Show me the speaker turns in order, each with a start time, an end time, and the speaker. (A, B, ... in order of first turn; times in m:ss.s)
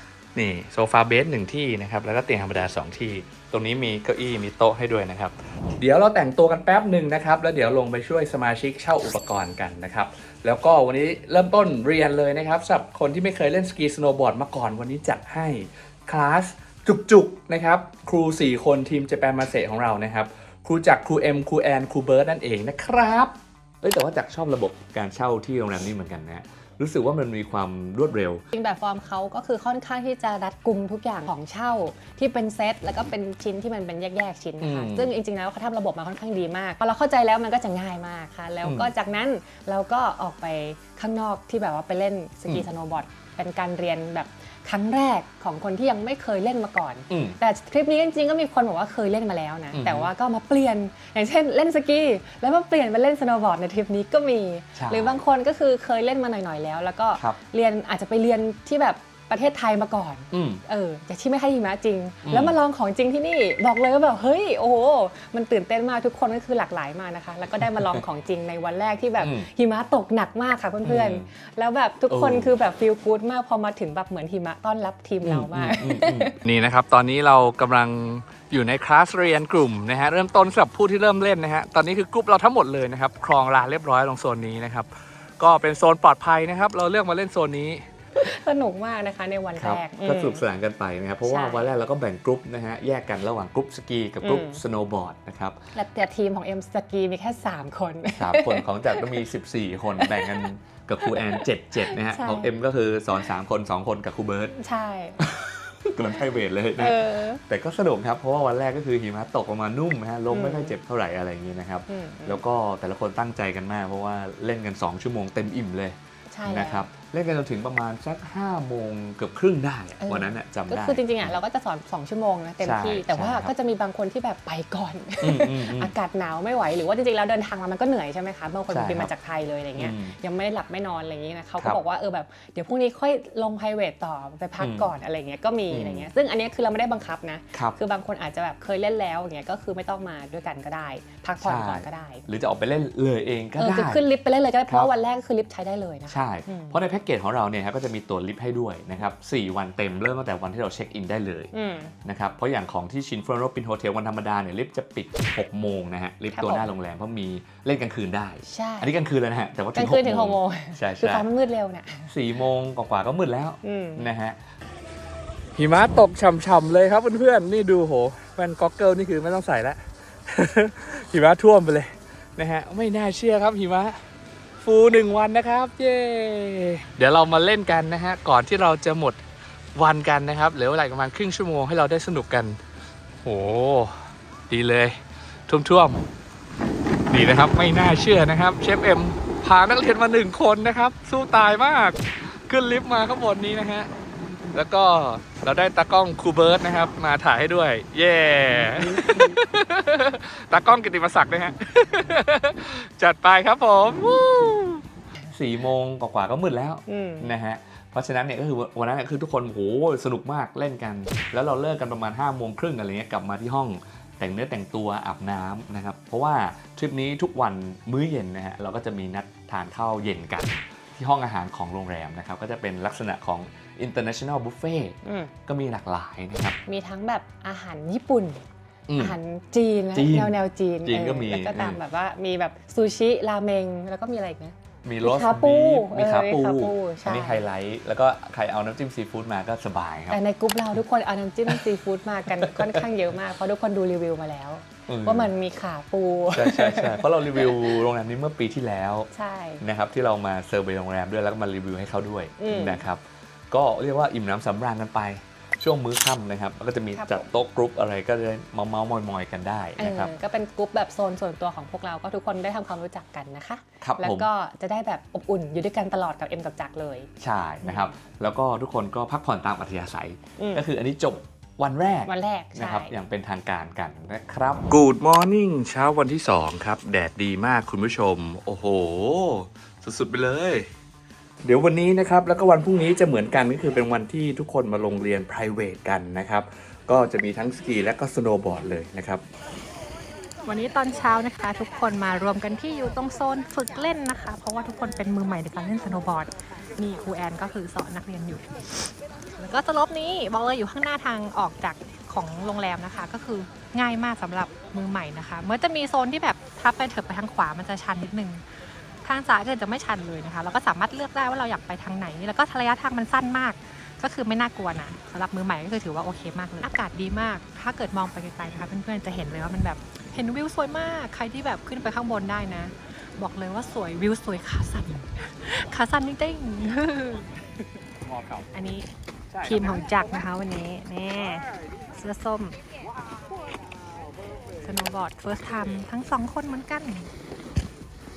0:00.4-0:28.4 A
0:28.5-1:16.4 B
0:34.6-0:35.1 A
0:38.6-0:38.9 A
0:47.1-0:47.4 A
0:49.7-0:50.1 A
0:54.8-0:55.2 A
1:00.3-1:00.6 A
1:02.2-1:02.6 A
1:07.6-1:08.0 A
1:09.2-1:09.5 A
1:10.8-1:11.3 A
1:12.1-1:12.5 A
1:15.2-1:27.8 A
1:28.2-1:30.4 B
1:29.6-1:35.6 A
1:31.2-1:31.7 B
1:34.2-1:34.6 B
1:35.8-1:39.2 B
1:38.2-1:44.6 A
1:40.0-1:40.5 B
1:41.1-1:42.5 B
1:44.6-1:45.2 B
1:45.2-2:01.4 A
1:46.8-1:47.4 B
1:50.3-1:50.8 B
1:51.9-1:52.4 B
1:56.3-1:56.9 B
2:00.0-2:22.3 B
2:02.6-2:03.5 A
2:05.2-2:05.9 A
2:08.7-2:09.1 A
2:09.8-2:10.2 A
2:14.6-2:14.9 A
2:15.7-2:16.1 A
2:21.4-2:24.0 A
2:23.6-2:26.8 B
2:26.1-2:31.5 A
2:31.5-2:32.0 B
2:32.0-2:41.3 A
2:36.3-2:36.7 B
2:38.5-2:38.9 B
2:39.8-2:42.1 B
2:42.1-2:44.4 A
2:43.6-2:44.1 B
2:45.6-2:54.0 A
2:54.6-2:59.2 A
2:59.8-3:02.6 A
3:03.2-3:06.0 A
3:07.1-3:13.9 A
3:14.5-3:46.6 A
3:18.9-3:19.3 B
3:26.9-3:27.3 B
3:45.0-3:45.3 B
3:46.7-3:48.4 B
3:48.9-3:49.2 A
3:49.0-3:57.5 B
3:49.9-3:51.8 A
3:54.8-4:00.2 A
4:00.1-4:07.8 B
4:02.3-4:02.9 A
4:04.9-4:05.3 A
4:06.3-4:09.1 A
4:09.1-4:09.6 B
4:09.6-4:20.1 A
4:12.4-4:12.9 B
4:17.0-4:17.3 B
4:19.8-4:27.1 B
4:23.8-4:24.3 A
4:27.2-4:40.7 A
4:27.6-4:28.0 B
4:30.4-4:30.7 B
4:32.1-4:33.0 B
4:41.4-4:49.2 A
4:50.4-5:08.4 C
5:09.0-5:27.3 C
5:28.5-5:28.9 C
5:29.4-5:32.6 C
5:34.6-5:37.1 C